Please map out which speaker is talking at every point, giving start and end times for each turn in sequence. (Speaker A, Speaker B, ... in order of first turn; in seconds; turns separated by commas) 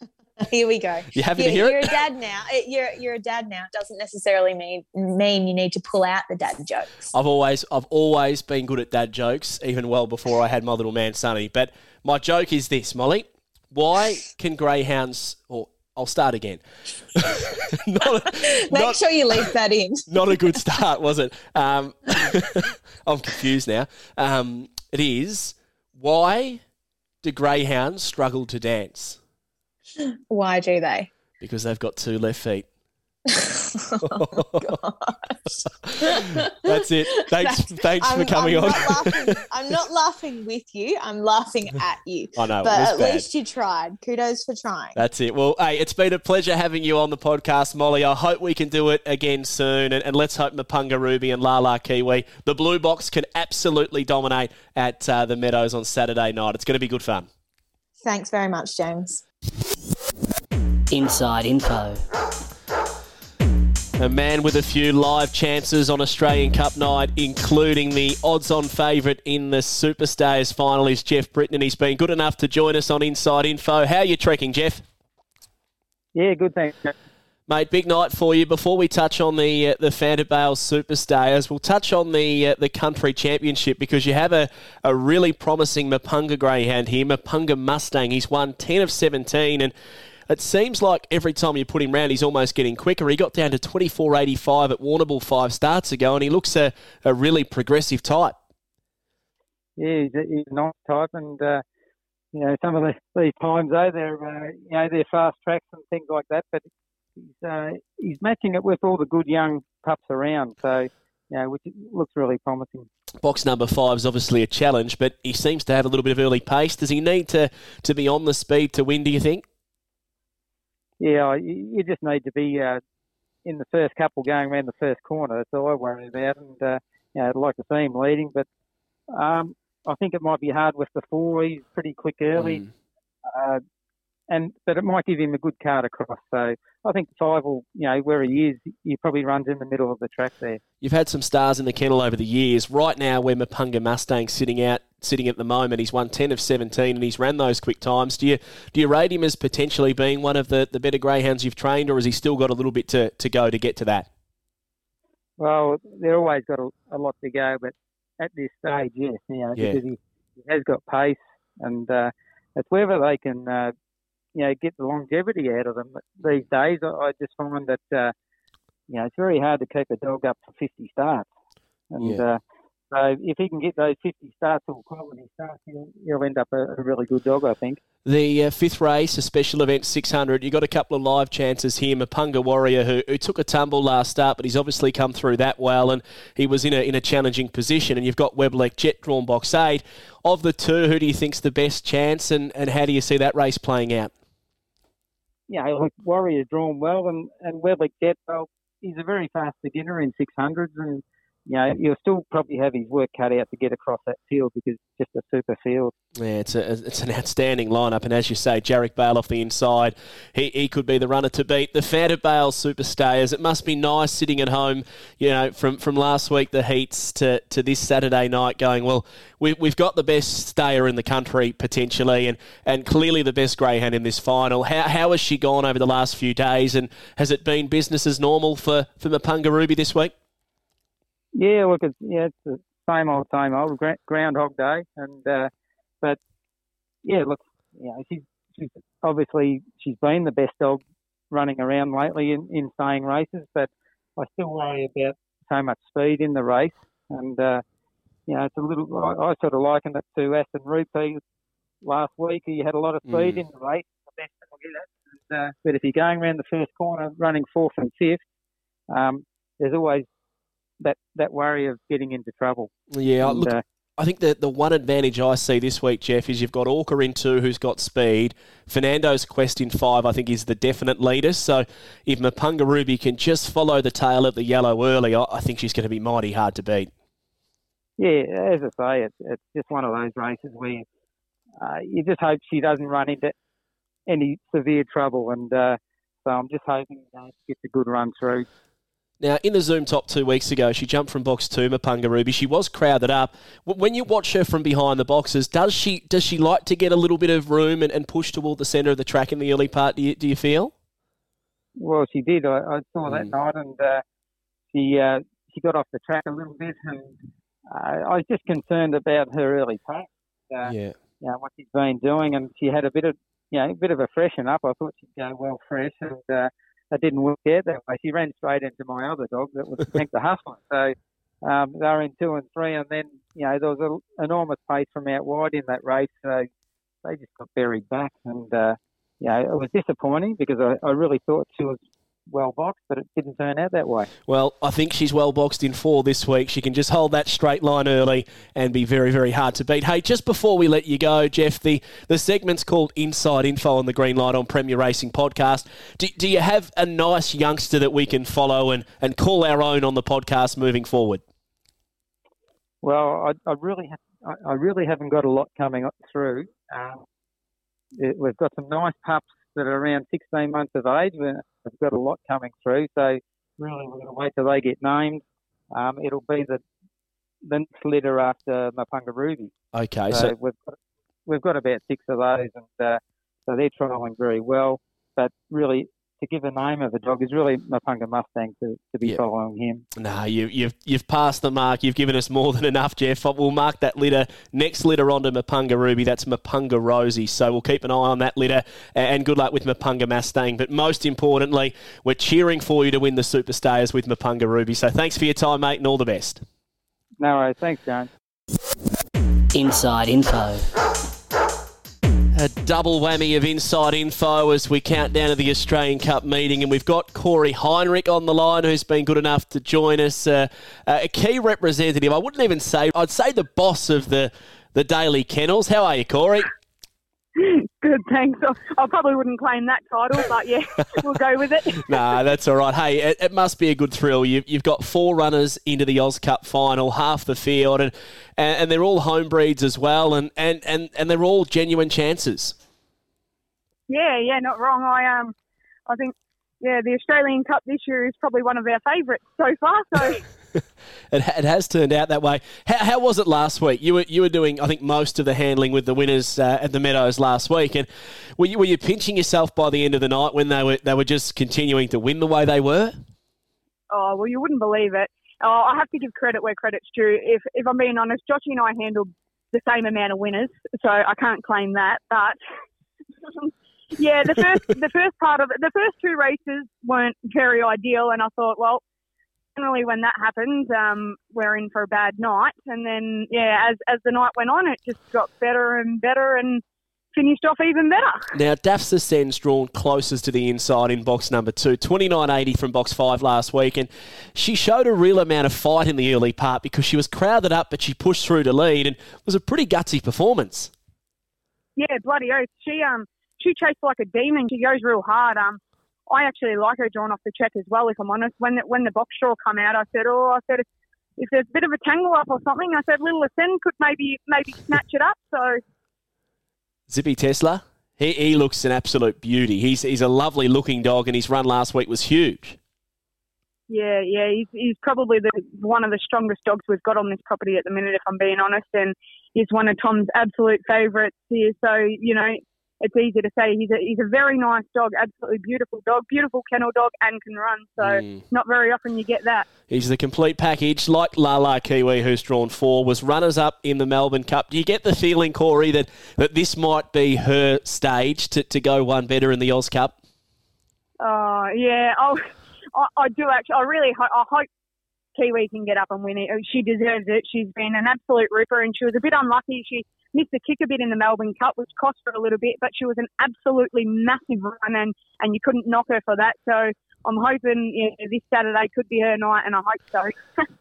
Speaker A: 0.4-7.1, Speaker B: 1.1-1.9, Speaker B: 7.1-16.6, Speaker B: 17.1-19.0, Speaker A: 18.3-20.3, Speaker B: 20.1-26.6, Speaker B: 27.2-29.2, Speaker A: 30.0-31.1, Speaker B: 31.4-32.7, Speaker A: 33.3-36.6, Speaker B: 34.0-34.7, Speaker B: 35.9-39.3, Speaker A: 37.4-45.0, Speaker B: 42.4-43.2, Speaker B: 45.0-57.3, Speaker A: 58.0-59.2, Speaker C: 60.9-62.0, Speaker B: 64.0-74.8, Speaker D: 76.1-76.9, Speaker B: 77.5-89.7, Speaker B: 90.3-98.4, Speaker D: 99.8-101.6, Speaker D: 102.3-112.9, Speaker B: 113.2-119.5, Speaker D: 121.0-122.8, Speaker D: 123.5-128.5, Speaker D: 129.1-132.7, Speaker D: 133.2-133.6, Speaker D: 134.3-140.6, Speaker B: 140.8-154.1, Speaker D: 155.4-163.7, Speaker D: 164.3-168.1, Speaker D: 168.9-171.3, Speaker D: 171.9-177.8, Speaker B: 172.0-172.2, Speaker B: 178.1-194.1, Speaker D: 195.5-205.9, Speaker B: 206.2-230.1, Speaker D: 231.3-235.5, Speaker D: 237.0-247.6, Speaker D: 248.3-251.2, Speaker D: 251.8-258.2, Speaker B: 253.1-253.4, Speaker D: 258.9-260.1, Speaker D: 260.8-262.7, Speaker B: 262.9-276.9, Speaker D: 263.2-263.6, Speaker D: 278.0-280.9, Speaker D: 281.6-283.3, Speaker D: 284.1-288.5, Speaker B: 289.2-300.7, Speaker D: 301.8-304.0, Speaker B: 303.1-303.3, Speaker D: 304.7-326.5, Speaker B: 310.6-311.0, Speaker D: 327.0-334.1, Speaker B: 334.3-351.2, Speaker D: 352.8-357.0, Speaker D: 358.0-366.6, Speaker D: 367.4-369.5, Speaker B: 369.7-370.3, Speaker D: 370.1-370.6, Speaker D: 371.3-379.8, Speaker B: 380.0-396.4, Speaker D: 397.2-398.1, Speaker C: 399.5-400.7, Speaker B: 402.3-416.5, Speaker E: 417.4-422.0, Speaker B: 421.8-432.6, Speaker E: 433.9-435.3, Speaker E: 435.9-440.2, Speaker B: 441.1-453.0, Speaker E: 453.9-462.4, Speaker E: 463.4-468.8, Speaker E: 469.6-476.6, Speaker E: 477.1-478.3, Speaker B: 478.3-490.7, Speaker E: 491.8-500.7, Speaker E: 501.2-505.6, Speaker B: 506.9-512.6, Speaker E: 513.7-529.5, Speaker B: 527.8-528.2, Speaker B: 529.7-540.0, Speaker E: 541.0-542.2, Speaker E: 542.7-544.5, Speaker E: 545.1-560.2